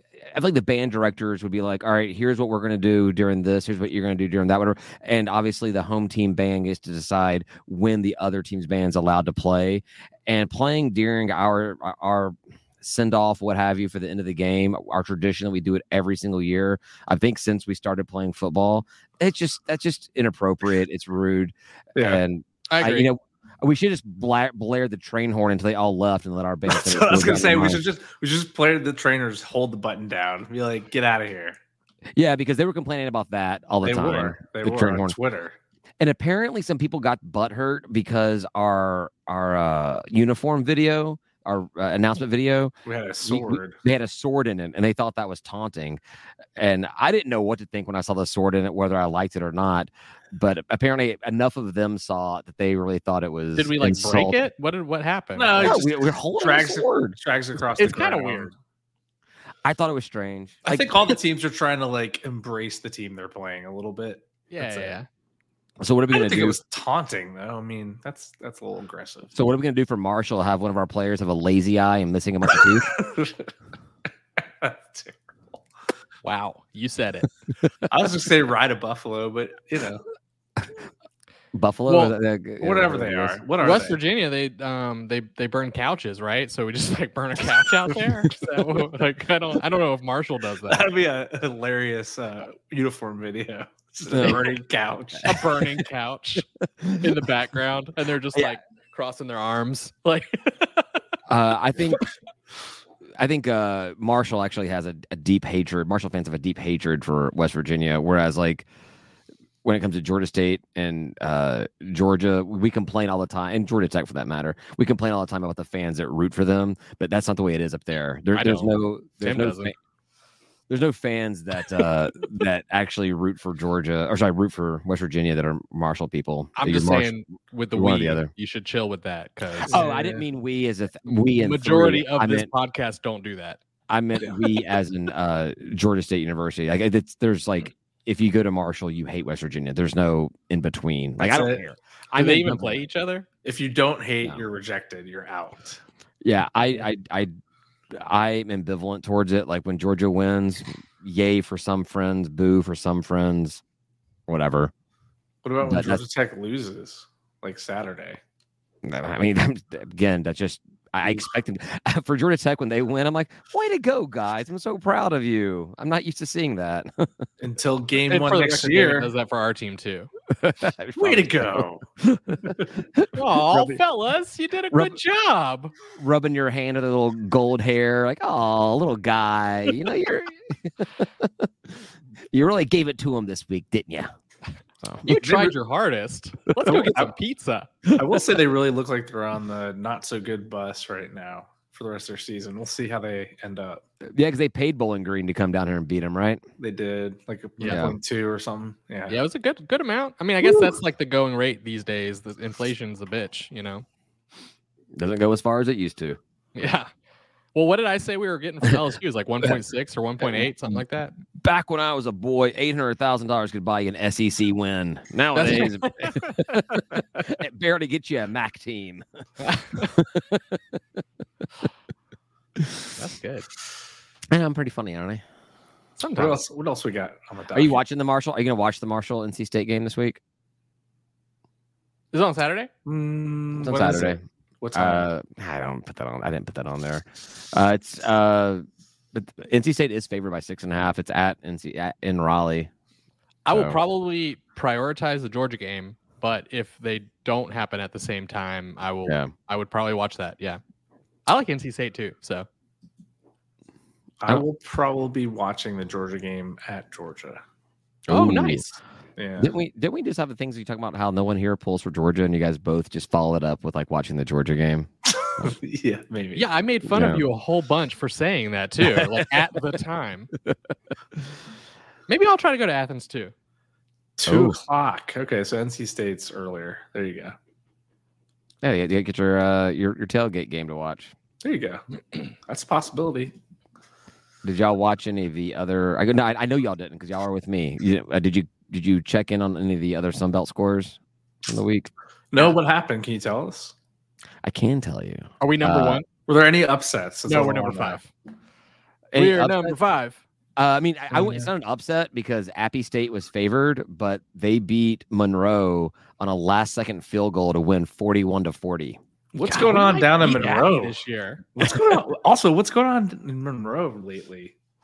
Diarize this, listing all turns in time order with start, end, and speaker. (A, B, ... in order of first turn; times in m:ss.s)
0:00.2-0:27.8 A
0:22.0-0:22.2 B
0:22.7-0:23.1 C
0:26.7-0:31.6 B
0:32.2-0:35.1 A
0:33.8-0:35.6 B
0:36.0-0:42.7 A
0:42.8-0:43.8 B
0:43.2-0:46.0 A
0:46.6-0:54.4 A
0:53.6-0:55.7 C
0:55.4-0:58.5 B
0:55.6-0:57.2 A
0:57.8-0:58.5 C
0:59.6-1:01.1 A
1:00.6-1:05.0 B
1:04.5-1:05.1 C
1:05.8-1:06.6 A
1:06.1-1:09.3 B
1:09.3-1:12.9 A
1:12.5-1:13.5 B
1:14.6-1:15.2 B
1:16.2-1:17.3 C
1:17.9-1:20.0 B
1:21.5-1:23.4 A
1:21.9-1:22.1 C
1:22.6-1:24.0 B
1:23.6-1:30.9 C
1:30.7-1:35.4 B
1:34.1-1:34.5 A
1:35.2-1:40.8 C
1:36.8-1:37.1 A
1:41.3-1:42.0 A
1:43.2-1:48.7 A
1:49.6-1:59.7 A
1:58.3-1:59.7 C
2:00.7-2:07.1 A
2:06.6-2:09.8 C
2:07.7-2:08.3 A
2:09.7-2:12.5 A
2:09.7-2:10.2 B
2:11.1-2:13.6 C
2:13.9-2:22.8 A
2:21.2-2:21.6 B
2:22.2-2:23.3 C
2:23.4-2:25.8 B
2:26.2-2:27.3 A
2:27.9-2:33.6 A
2:34.3-2:34.7 A
2:35.4-2:38.2 B
2:35.6-2:36.0 A
2:38.8-2:47.3 A
2:47.4-2:49.1 B
2:48.1-2:50.1 C
2:50.3-2:53.8 A
2:51.0-2:51.8 B
2:52.4-2:52.7 B
2:53.1-2:55.7 C
2:55.9-3:01.8 A
3:02.3-3:04.1 A
3:04.8-3:05.5 A
3:05.0-3:07.7 C
3:06.6-3:07.1 B
3:07.9-3:08.2 A
3:07.9-3:13.8 B
3:14.1-3:16.4 A
3:16.6-3:19.2 B
3:17.6-3:17.8 C
3:17.7-3:18.0 A
3:19.1-3:23.8 C
3:24.9-3:26.2 A
3:26.5-3:26.9 C
3:27.5-3:31.1 C
3:30.2-3:30.5 A
3:31.4-3:39.0 A
3:35.4-3:36.4 C
3:39.4-3:39.9 C
3:39.7-3:40.8 A
3:42.9-3:43.5 C
3:44.3-3:45.2 A
3:46.0-3:46.4 C
3:46.2-3:47.8 B
3:47.5-3:50.2 A
3:52.1-3:52.7 C
3:52.8-3:55.1 B
3:53.6-3:54.2 A
3:54.7-4:02.7 A
4:03.4-4:10.6 C
4:03.5-4:03.8 A
4:09.0-4:09.3 A
4:11.3-4:12.5 C
4:14.2-4:17.4 B
4:18.1-4:18.6 A
4:18.1-4:18.8 C
4:19.2-4:19.5 B
4:19.4-4:24.9 A
4:25.2-4:26.5 B
4:26.4-4:30.3 C
4:26.9-4:27.2 A
4:28.8-4:29.2 A
4:32.1-4:33.3 C
4:34.2-4:37.3 B
4:34.2-4:34.6 A
4:38.6-4:41.1 A
4:41.4-4:41.8 B
4:42.5-4:43.3 B
4:44.4-4:51.9 A
4:52.3-4:53.7 B
4:54.4-4:56.0 A
4:55.4-4:56.0 C
4:56.3-4:58.0 B
4:57.3-4:58.1 C
4:59.1-4:59.8 A
4:59.1-5:00.2 C
5:00.6-5:09.0 A
5:01.1-5:01.5 B
5:09.3-5:11.0 B
5:09.4-5:11.4 C
5:11.6-5:14.5 B